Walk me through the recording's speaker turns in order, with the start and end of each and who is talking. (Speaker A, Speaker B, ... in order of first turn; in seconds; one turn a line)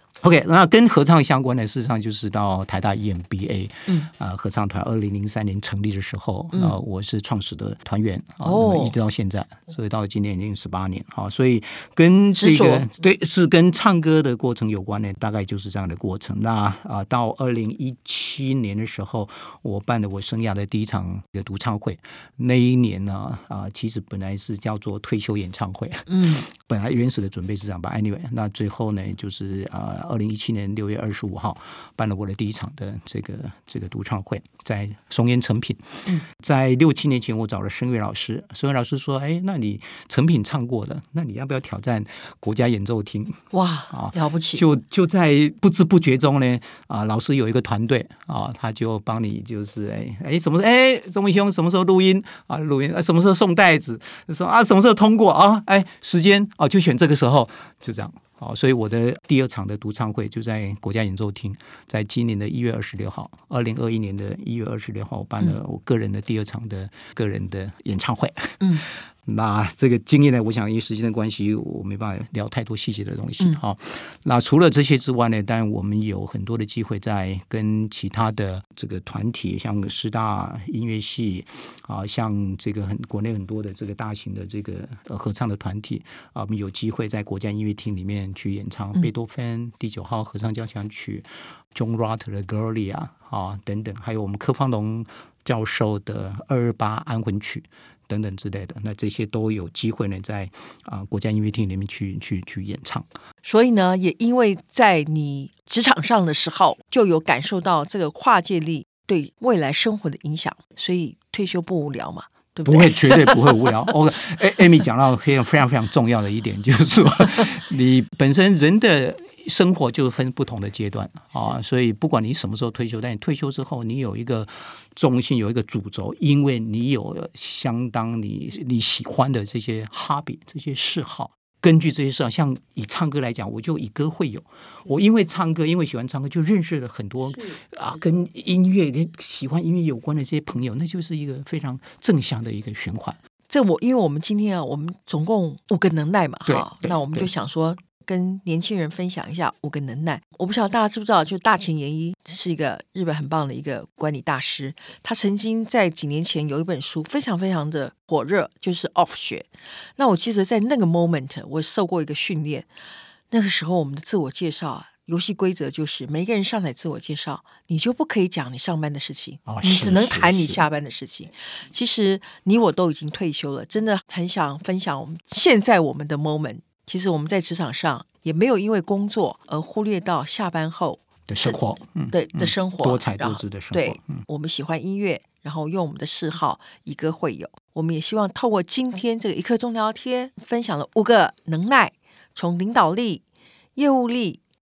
Speaker A: 0.2-43.4
Speaker B: 6.5-6.8
Speaker B: 8.4-8.9
Speaker B: 12.4-12.8
Speaker B: 26.1-26.4
Speaker B: 43.5-44.6
Speaker A: 43.9-103.0
Speaker B: 68.6-68.8
Speaker B: 103.4-113.4
Speaker A: 112.6-143.2
Speaker B: 143.5-162.7
Speaker A: 146.5-147.3
Speaker B: 163.3-181.6
Speaker A: 169.5-170.6
Speaker A: 181.3-184.2
Speaker B: 182.1-193.2
Speaker B: 193.8-194.4